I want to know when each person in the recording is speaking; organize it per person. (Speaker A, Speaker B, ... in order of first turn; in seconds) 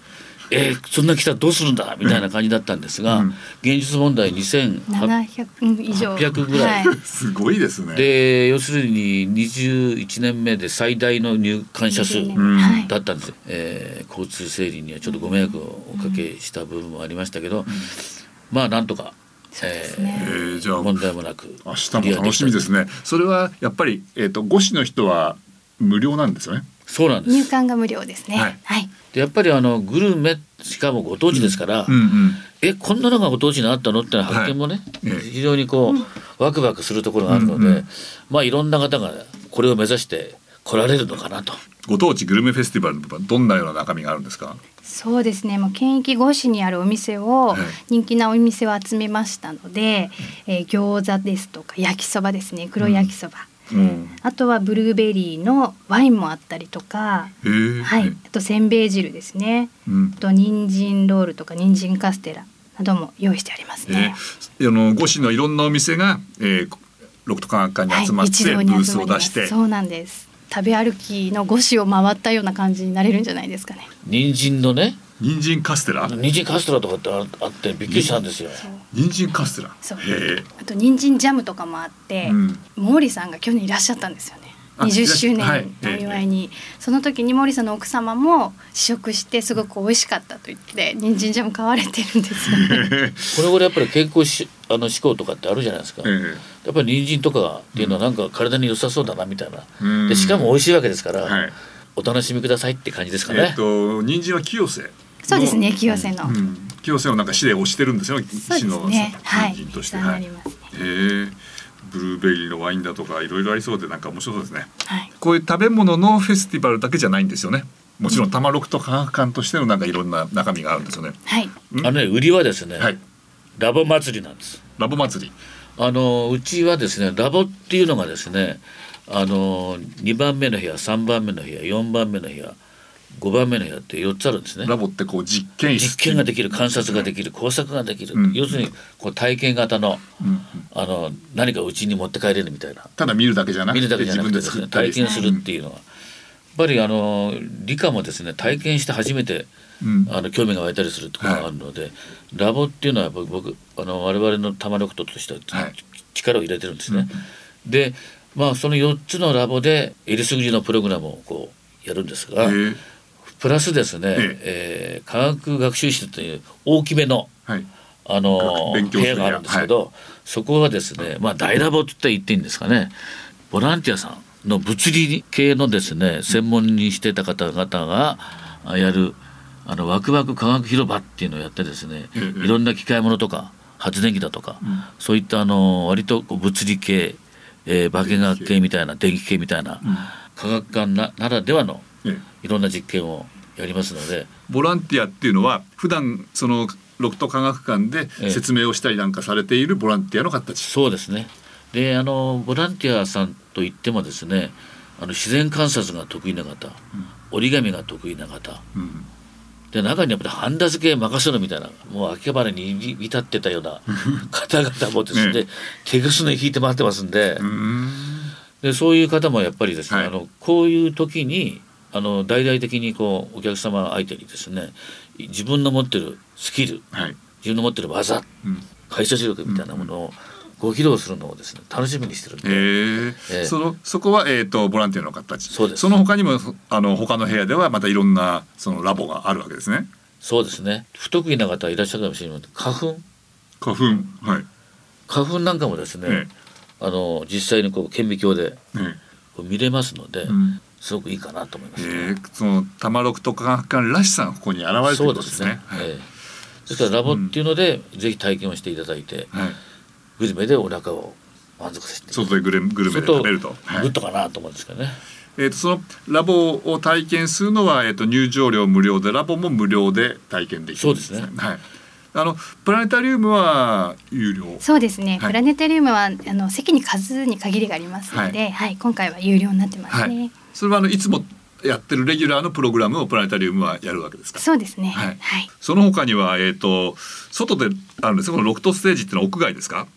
Speaker A: 0.5-5.1, 6.0-6.9, 7.9-22.7, 26.9-27.5, 29.1-41.6, 74.0-75.0, 76.0-78.7, 93.3-101.4, 102.0-103.6, 121.8-123.0, 123.6-124.6, 125.8-132.6, 133.1-134.8, 135.7-140.1, 140.7-142.9, 143.7-145.8, 146.5-149.5, 150.1-162.6, 163.3-167.3, 168.1-173.0, 173.5-191.9, 192.4-194.3, 200.6-206.8, 207.3-208.6, 209.7-217.5, 218.6-226.9, 227.4-228.3, 228.9-233.6, 235.5-236.0, 240.2-243.1, 245.1-246.3, 246.8-248.6, 249.3-252.2, 254.8-256.1, 256.7-259.4, 260.2-265.0, 270.8-271.3
Speaker B: 3.1-3.4, 6.4-8.1, 12.3-12.9, 17.7-17.9, 20.1-21.0, 21.6-26.7, 31.3-32.4, 34.3-35.3, 37.3-37.9, 41.9-44.6, 47.5-47.8, 52.8-53.1, 53.7-54.2, 57.4-58.1, 59.9-60.2, 63.9-69.5, 75.2-76.2, 77.9-78.2, 78.9-80.5, 82.2-82.6, 84.8-86.2, 92.4-93.5, 96.0-96.4, 99.8-100.6, 101.2-101.5, 103.3-105.6, 106.2-121.2, 124.8-125.3, 134.6-137.1, 138.1-138.7, 140.2-140.7, 143.0-145.4, 149.8-150.1, 151.2-151.5, 156.9-157.2, 162.4-162.8, 168.3-169.7, 182.2-182.6, 184.6-184.9, 188.0-188.6, 189.8-190.1, 194.5-200.7, 208.8-209.1, 213.9-214.2, 215.1-215.4, 217.4-218.3, 226.9-227.2, 229.5-229.9, 232.4-239.9, 243.6-244.5, 246.1-246.3, 248.7-249.0, 250.3-250.6, 251.8-255.9, 256.7-257.4, 259.3-259.6, 262.1-263.9, 265.4-271.6, 272.1-274.6, 279.9-289.9
Speaker C: 4.9-7.0, 11.8-12.9, 15.1-16.3, 19.5-20.5, 27.3-28.9, 44.8-53.5, 54.2-64.2, 67.9-73.9, 79.8-92.9, 105.2-106.4, 108.4-110.6, 114.9-115.1, 121.3-121.5, 145.0-145.3, 274.6-280.4, 284.4-285.5